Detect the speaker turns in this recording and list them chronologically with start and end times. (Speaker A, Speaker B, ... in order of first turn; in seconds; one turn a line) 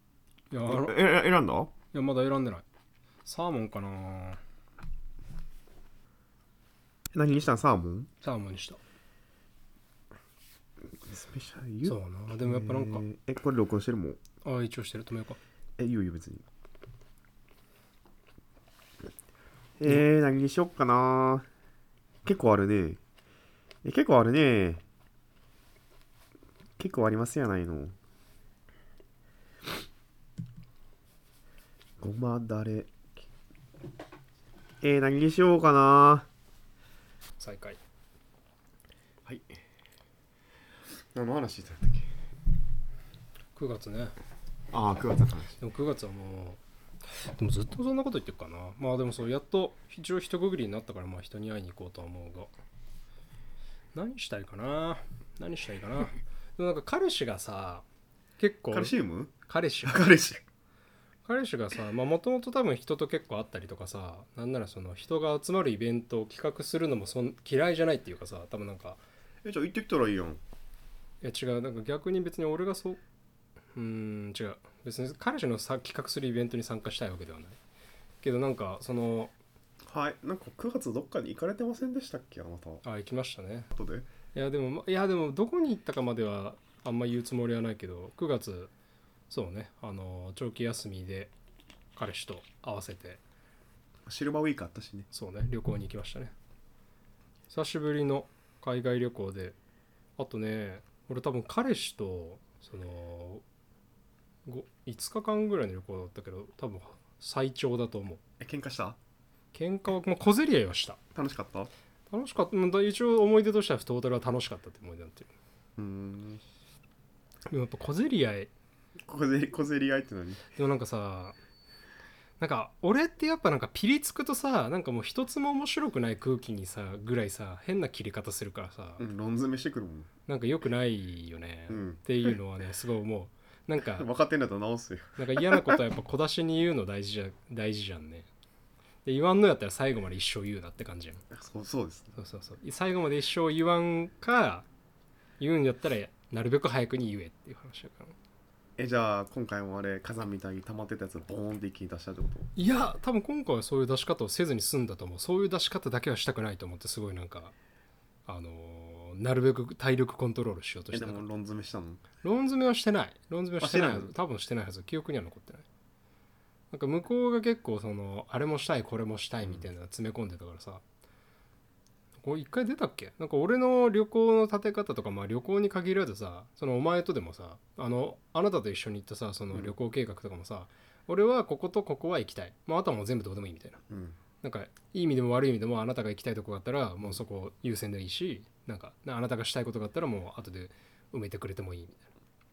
Speaker A: 0.5-1.0
Speaker B: 0.7-1.7
Speaker A: 1.9-2.6
Speaker A: 3.2-4.4
Speaker B: 7.1-8.1
Speaker A: 8.2-8.8
Speaker B: 10.9-14.2
Speaker A: 11.8-13.1
Speaker A: 14.4-15.4
Speaker B: 15.8-16.4
Speaker B: 19.8-21.5
Speaker B: 22.2-23.0
Speaker B: 23.8-24.8
Speaker B: 26.8-27.9
Speaker B: 32.0-33.2
Speaker B: 34.8-36.3
Speaker A: 37.4-37.8
Speaker B: 39.3-39.6
Speaker B: 41.1-42.1
Speaker A: 43.5-44.2
Speaker B: 44.7-45.6
Speaker A: 45.6-46.6
Speaker A: 47.1-52.5
Speaker A: 54.0-57.9
Speaker A: 58.4-60.1
Speaker B: 58.7-59.3
Speaker B: 59.9-60.4
Speaker A: 61.3-69.0
Speaker B: 69.4-70.4
Speaker A: 71.2-73.0
Speaker A: 73.8-77.6
Speaker A: 78.2-79.3
Speaker B: 79.9-82.8
Speaker A: 82.8-83.7
Speaker B: 83.8-84.1
Speaker A: 84.3-88.7
Speaker A: 89.3-91.3
Speaker A: 92.0-93.2
Speaker B: 94.1-95.1
Speaker A: 95.1-96.3
Speaker A: 97.5-99.6
Speaker A: 100.2-103.4
Speaker A: 104.5-108.2
Speaker B: 108.4-109.0
Speaker A: 109.5-111.0
Speaker B: 111.2-111.7
Speaker A: 112.1-115.3
Speaker B: 115.8-116.4
Speaker A: 117.5-118.5
Speaker B: 119.1-120.5
Speaker A: 120.5-121.4
Speaker A: 122.4-129.0
Speaker B: 129.0-130.1
Speaker A: 130.3-134.1
Speaker B: 131.7-132.0
Speaker B: 133.8-135.8
Speaker A: 135.2-138.3
Speaker A: 139.1-141.2
Speaker B: 141.3-142.2
Speaker A: 142.2-144.7
Speaker A: 145.4-148.2
Speaker B: 148.8-152.5
Speaker A: 152.6-157.5
Speaker A: 158.3-161.3
Speaker B: 160.9-162.0
Speaker A: 162.2-165.7
Speaker B: 163.6-164.1
Speaker A: 166.7-170.8
Speaker B: 169.4-169.7
Speaker A: 172.2-183.8
Speaker B: 183.9-184.2
Speaker A: 184.4-192.0